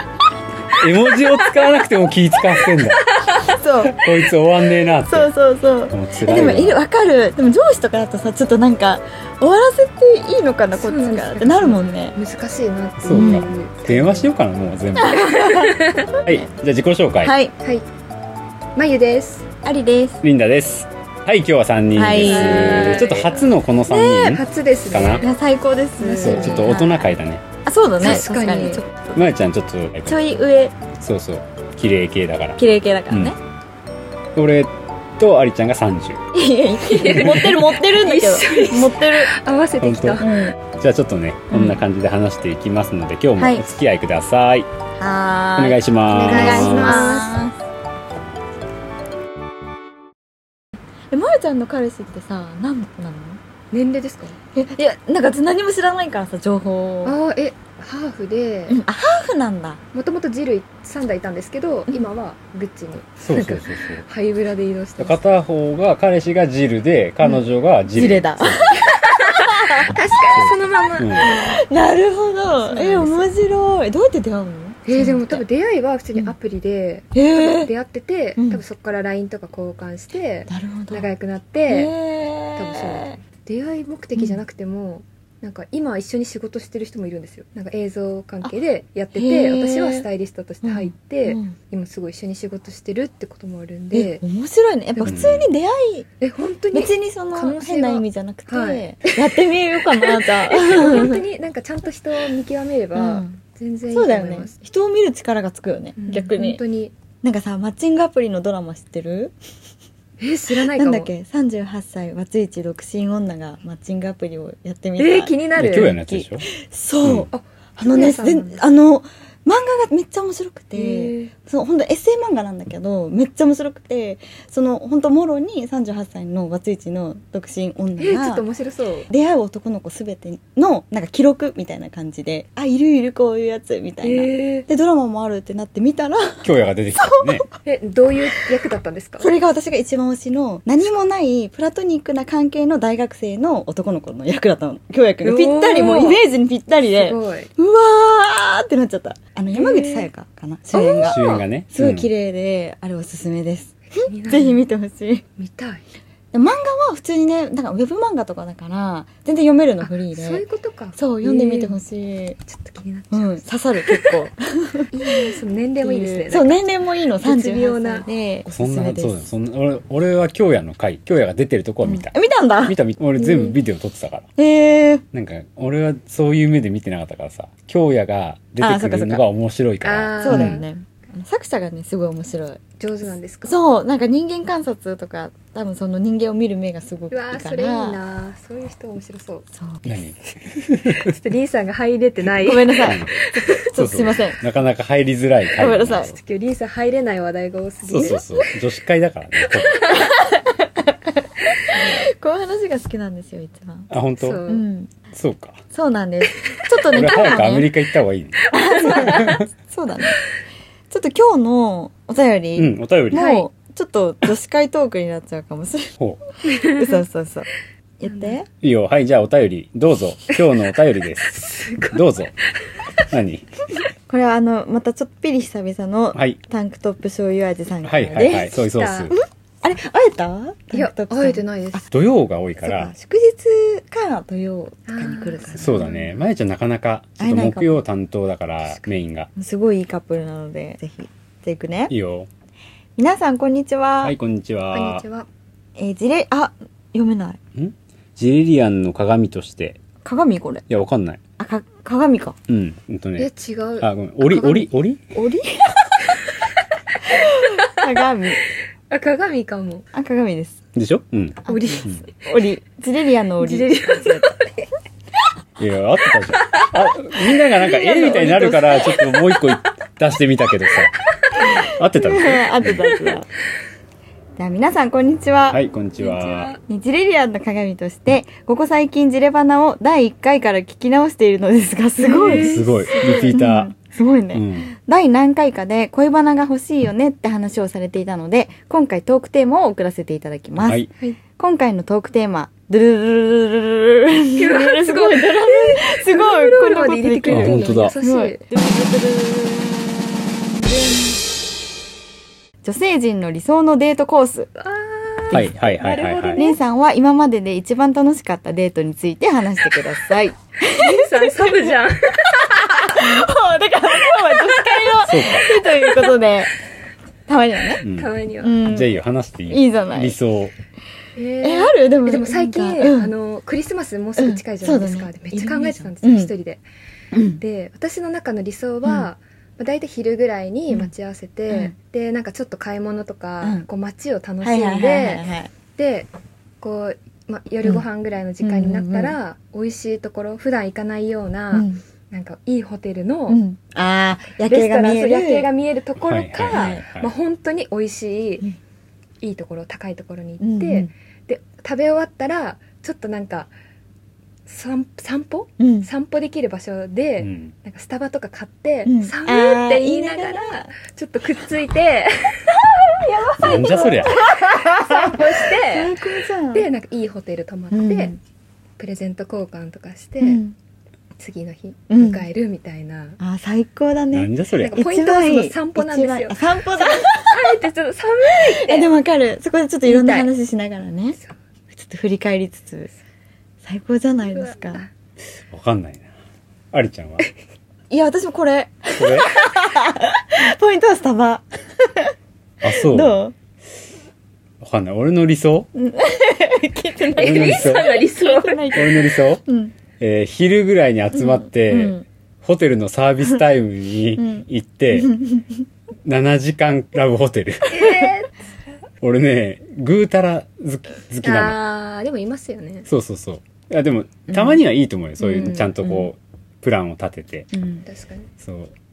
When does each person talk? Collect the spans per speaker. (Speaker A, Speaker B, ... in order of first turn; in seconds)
Speaker A: 0.8-3.1, 3.8-5.3, 5.9-6.8, 13.0-15.4, 16.2-17.3, 20.2-25.3, 26.2-27.4, 29.1-30.3, 30.9-33.3, 34.3-36.2, 37.0-37.4, 39.8-44.7, 45.6-47.1, 63.2-64.0, 65.0-68.8, 70.3-71.3, 95.0-95.5, 115.5-116.5, 136.4-137.4, 150.7-152.1, 168.5-174.3, 175.1-180.6, 189.8-191.1, 192.8-196.2, 197.8-199.9, 203.9-204.4, 205.1-205.6, 206.9-209.5, 212.6-213.3, 218.6-222.3, 223.1-223.4, 227.8-229.1, 231.9-232.9, 235.6-239.3, 241.9-242.3, 244.0-245.0, 247.5-249.8, 250.7-251.2, 252.5-253.3, 253.8-255.0, 260.7-262.0, 265.6-270.9, 271.6-272.9, 275.5-276.6, 282.2-283.7, 284.3-284.7, 290.6-290.9, 297.3-297.9, 305.3-306.4, 315.0-315.5, 317.8-320.5, 346.0-347.1, 357.2-357.5, 363.4-364.2, 374.1-374.8, 385.5-386.1, 386.7-387.2, 389.0-389.4, 392.6-393.2, 394.6-395.7, 397.2-398.0, 398.7-399.4, 400.0-405.1, 406.0-407.9, 409.0-411.6, 412.9-417.5, 418.4-418.7
Speaker B: 1.3-1.6, 3.1-3.4, 10.8-14.3, 15.5-16.1, 18.8-19.5, 22.2-23.4, 24.2-25.3, 26.0-26.7, 28.0-28.9, 36.8-40.5, 46.1-47.4, 53.7-54.4, 57.0-58.8, 59.9-65.2, 69.1-71.4, 72.5-73.3, 74.8-81.9, 82.5-94.2, 96.2-99.1, 100.1-104.5, 106.0-106.9, 110.2-111.1, 115.0-115.9, 117.3-118.6, 120.7-121.3, 128.0-129.1, 134.0-134.7, 137.6-139.3, 145.2-146.2, 146.8-147.5, 149.5-150.1, 151.0-151.4, 153.9-154.7, 155.4-155.8, 159.8-161.8, 162.5-164.1, 164.9-166.7, 167.2-168.1, 173.2-173.5, 179.8-180.7, 182.8-183.6, 187.1-189.4, 190.9-193.7, 196.2-198.5, 199.5-200.2, 201.6-201.9, 204.2-204.7, 208.5-209.3, 213.1-213.4, 216.5-217.0, 218.1-218.4, 221.3-222.0, 228.2-229.1, 230.7-231.8, 234.9-236.1, 244.7-245.3, 253.2-254.7, 258.9-259.9, 261.5-261.9, 263.4-264.4, 276.0-276.6, 282.0-283.4, 294.4-298.4, 304.6-306.6, 310.7-313.3, 314.0-315.0, 315.8-316.1, 317.8-318.6, 321.1-326.6, 327.4-336.1, 336.6-343.4, 344.4-348.4, 349.2-353.5, 354.5-368.1, 368.8-370.4, 371.2-373.2, 374.6-378.9, 379.9-380.3, 384.3-384.9, 397.1-398.9, 407.7-408.3, 411.2-412.9, 415.3-415.7, 417.9-418.3
Speaker C: 3.4-4.0, 5.0-12.2, 13.1-13.4, 14.9-16.2, 17.2-17.5, 19.6-20.2, 21.9-23.1, 23.9-24.4, 25.2-27.1, 27.6-29.2, 30.1-30.7, 32.6-33.4, 36.3-39.3, 40.2-40.5, 41.5-41.8, 43.4-43.7, 45.0-47.6, 51.1-53.4, 54.5-57.2, 58.7-59.8, 63.3-63.6, 67.9-69.9, 71.2-75.4, 77.1-77.7, 78.4-78.6, 80.5-81.1, 81.7-83.2, 89.1-90.1, 90.6-91.5, 93.9-96.1, 96.7-101.2, 102.9-103.3, 103.9-106.6, 107.2-109.3, 110.5-128.4, 129.1-136.5, 137.0-137.4, 139.2-155.2, 156.3-160.4, 160.9-162.4, 163.1-169.3, 171.8-172.8, 174.3-175.0, 178.6-179.2, 180.2-182.6, 183.4-188.0, 189.5-189.9, 192.4-194.4, 195.6-196.1, 199.9-203.9, 204.5-204.9, 205.7-207.7, 208.5-210.2, 210.9-218.4, 224.1-228.5, 229.1-231.8, 232.6-235.9, 237.2-237.8, 239.3-241.9, 243.0-244.1, 245.8-247.4, 250.0-250.6, 251.4-252.4, 255.1-256.0, 257.0-258.4, 259.9-260.6, 261.5-264.3, 267.5-269.0, 271.4-273.3, 274.4-275.6, 276.6-282.6, 283.3-301.2, 302.6-304.5, 306.4-311.8, 312.8-316.6, 317.3-317.8, 318.4-319.0, 319.5-320.2, 321.4-323.1, 324.2-326.3, 327.1-327.4, 331.5-331.7, 333.4-333.7, 334.4-335.5, 338.4-339.1, 341.5-341.8, 343.3-345.5, 346.5-346.8, 350.4-350.9, 355.6-355.9, 358.8-360.7, 363.1-366.7, 367.7-368.2, 370.2-370.5, 371.9-372.2, 373.2-377.6, 378.3-381.2, 381.7-382.9, 383.6-384.9, 387.9-392.1, 392.7-393.3, 395.7-399.7, 401.1-402.0, 404.2-405.6, 414.3-414.6, 415.3-416.1, 417.5-417.8